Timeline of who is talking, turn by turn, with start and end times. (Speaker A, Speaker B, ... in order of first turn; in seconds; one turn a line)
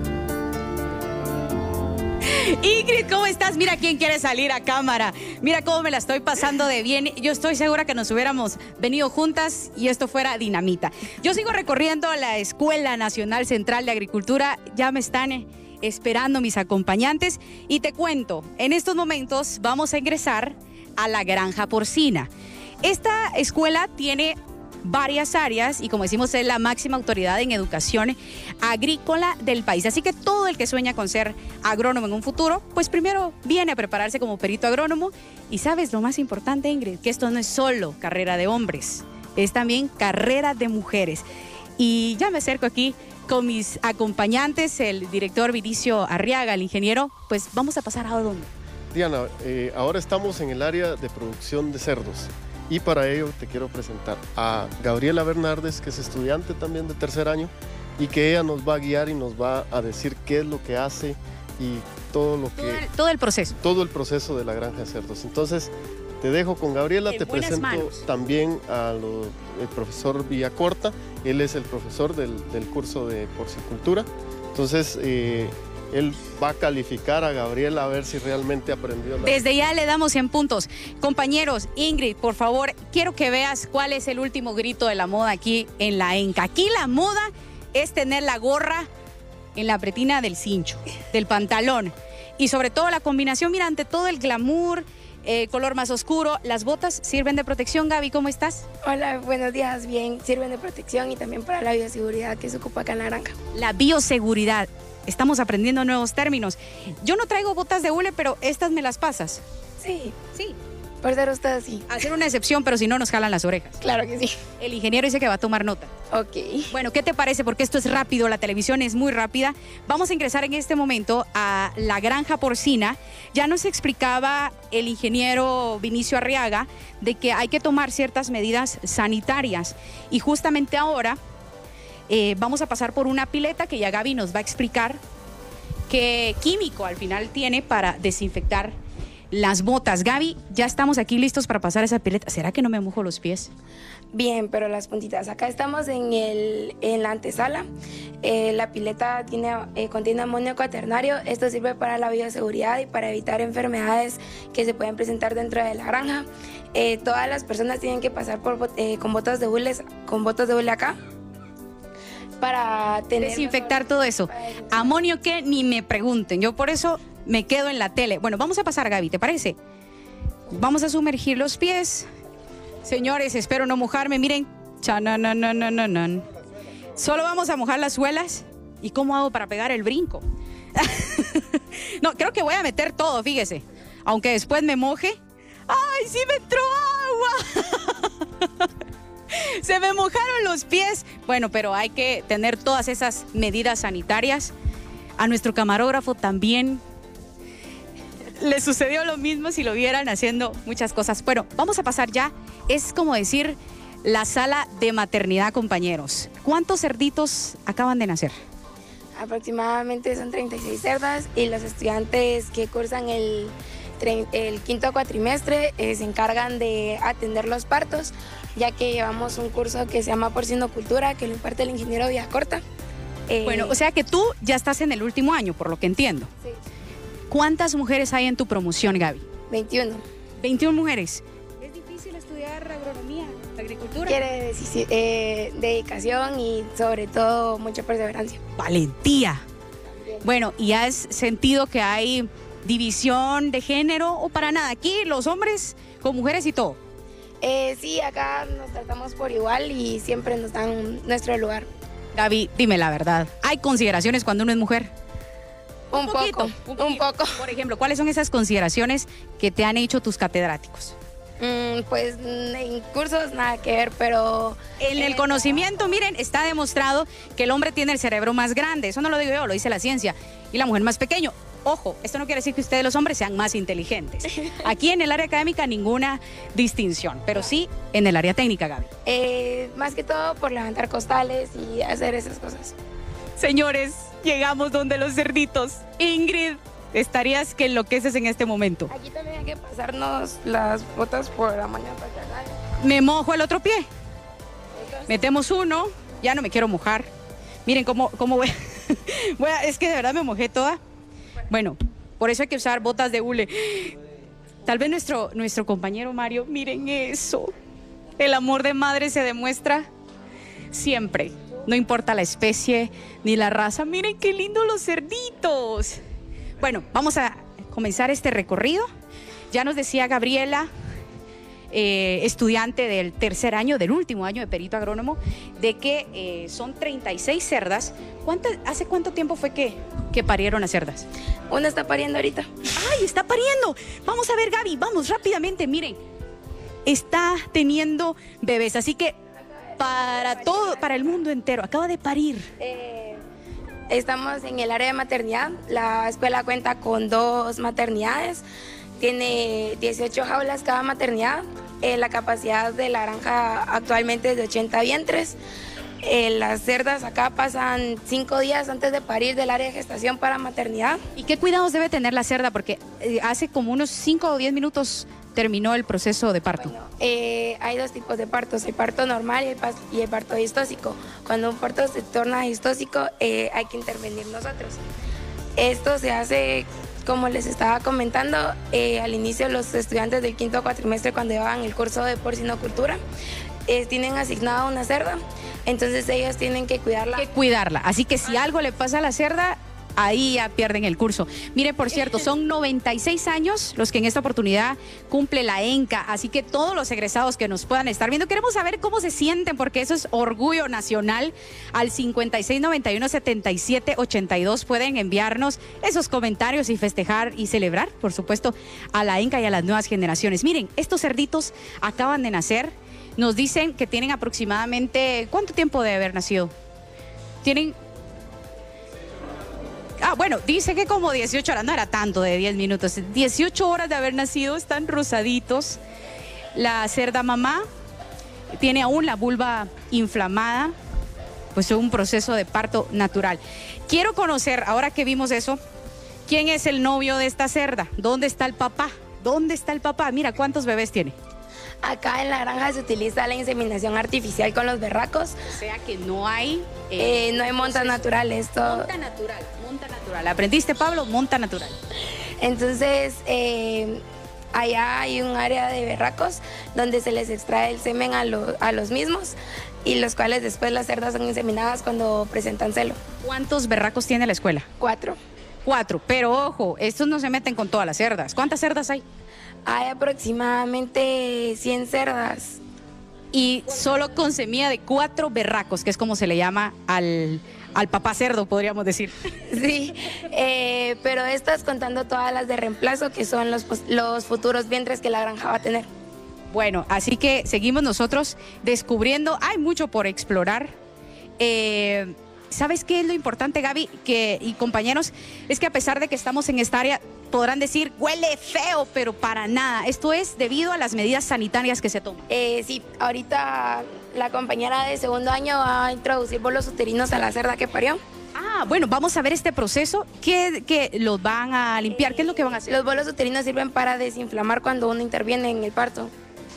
Speaker A: 2.2-22.3
Speaker A: 22.8-41.2
Speaker A: 41.8-48.5
Speaker B: 48.9-62.8
Speaker A: 62.5-63.6
Speaker B: 63.6-79.4
Speaker A: 67.1-68.0
Speaker A: 79.2-88.9
Speaker A: 89.5-98.6
Speaker C: 98.8-103.3
Speaker A: 103.5-109.4
Speaker C: 109.8-110.2
Speaker A: 110.3-110.6
Speaker C: 111.0-112.0
Speaker A: 111.9-113.8
Speaker C: 113.8-114.3
Speaker A: 114.6-115.9
Speaker C: 116.1-116.7
Speaker A: 116.7-131.2
Speaker A: 132.1-135.0
Speaker A: 135.9-138.7
Speaker A: 139.3-143.5
Speaker C: 144.1-147.7
Speaker C: 148.2-160.9
Speaker C: 162.4-164.9
Speaker A: 163.2-169.6
Speaker A: 170.5-172.1
Speaker A: 172.8-176.3
Speaker A: 176.9-188.7
Speaker A: 189.3-194.5
Speaker A: 195.2-196.8
Speaker A: 198.3-208.3
Speaker C: 209.2-222.6
Speaker C: 223.3-223.8
Speaker A: 223.4-226.3
Speaker A: 227.3-229.2
Speaker C: 229.5-230.0
Speaker A: 230.4-234.2
Speaker C: 234.1-238.4
Speaker A: 238.6-239.4
Speaker A: 240.2-246.8
Speaker C: 247.4-251.7
Speaker A: 252.1-254.9
Speaker C: 255.9-257.4
Speaker A: 255.9-260.9
Speaker C: 261.4-265.6
Speaker A: 264.8-278.9
Speaker C: 279.1-282.7
Speaker A: 283.4-288.9
Speaker C: 288.9-292.6
Speaker A: 292.8-293.9
Speaker C: 294.8-295.1
Speaker A: 295.1-297.1
Speaker A: 297.6-300.8
Speaker A: 301.5-304.0
Speaker A: 304.6-307.5
Speaker A: 308.2-309.9
Speaker A: 310.7-316.0
Speaker A: 316.6-318.9
Speaker A: 319.5-320.7
Speaker A: 321.7-331.1
Speaker C: 331.5-332.5
Speaker A: 332.7-336.0
Speaker A: 336.8-339.1
Speaker A: 339.8-342.5
Speaker C: 340.2-340.7
Speaker C: 342.6-343.2
Speaker C: 343.9-348.4
Speaker C: 349.0-355.4
Speaker C: 356.0-361.0
Speaker A: 361.1-366.7
Speaker C: 366.6-374.8
Speaker C: 375.6-383.0
Speaker C: 383.7-387.3
Speaker A: 387.1-416.5
Speaker A: 417.4-417.8
Speaker A: 420.0-425.8
Speaker A: 426.5-427.6
Speaker A: 428.5-430.7
Speaker A: 431.5-435.6
Speaker A: 436.2-441.1
Speaker C: 441.8-445.4
Speaker A: 445.5-451.8
Speaker C: 447.0-448.9
Speaker C: 452.4-454.0
Speaker C: 454.5-463.0
Speaker A: 463.2-464.6
Speaker C: 464.8-465.2
Speaker A: 465.6-469.0
Speaker C: 469.6-472.6
Speaker A: 473.3-479.1
Speaker C: 479.5-485.9
Speaker A: 486.5-490.7
Speaker A: 491.4-502.2
Speaker C: 502.3-508.0
Speaker A: 508.3-512.9
Speaker C: 511.9-516.1